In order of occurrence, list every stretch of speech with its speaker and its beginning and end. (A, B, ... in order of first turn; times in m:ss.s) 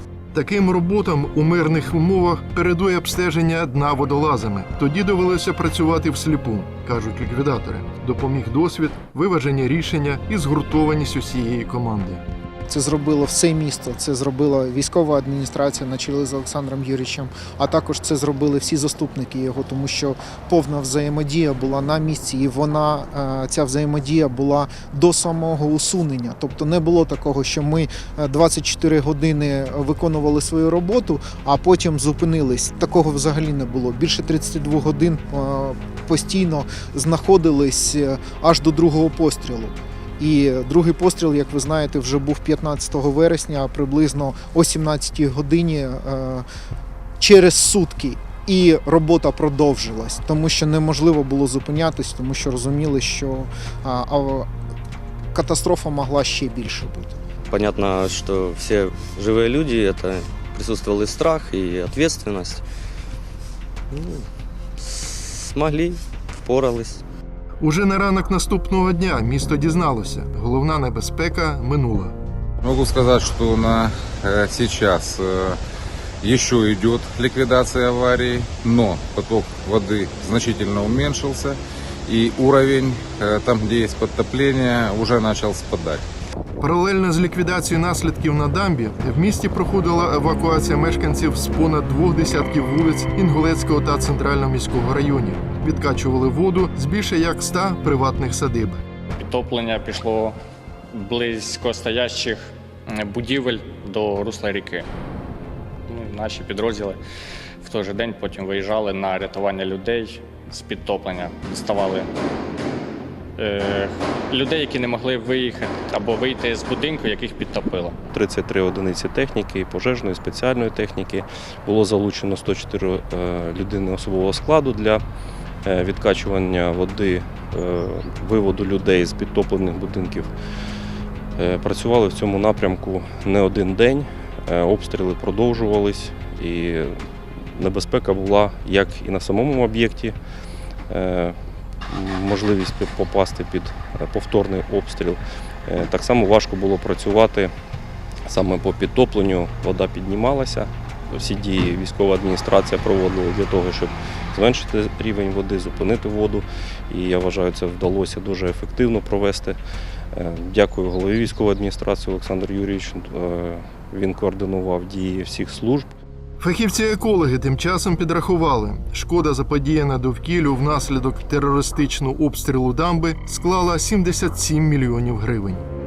0:00.3-0:12.2 A
0:12.7-0:46.4 B
0:47.2-0:54.5 B
0:55.3-0:57.2 B
0:57.5-1:02.6 C
1:03.9-1:04.2 C
1:05.5-1:07.0 C
1:07.6-1:12.2 A
1:12.6-1:15.6 D
1:16.2-1:26.0 D
1:26.6-1:38.8 A
1:39.2-1:40.4 E
1:40.9-1:44.9 E
1:45.9-1:47.0 E
1:47.6-1:52.1 E
1:53.4-1:58.0 E
1:58.1-2:05.0 F
2:05.6-2:10.3 F
2:11.4-2:17.0 F
2:17.5-2:20.2 F
2:20.9-2:21.4 F
2:21.9-2:27.5 F
2:28.3-2:39.6 F
2:40.1-2:45.9 F
2:46.4-2:55.6 A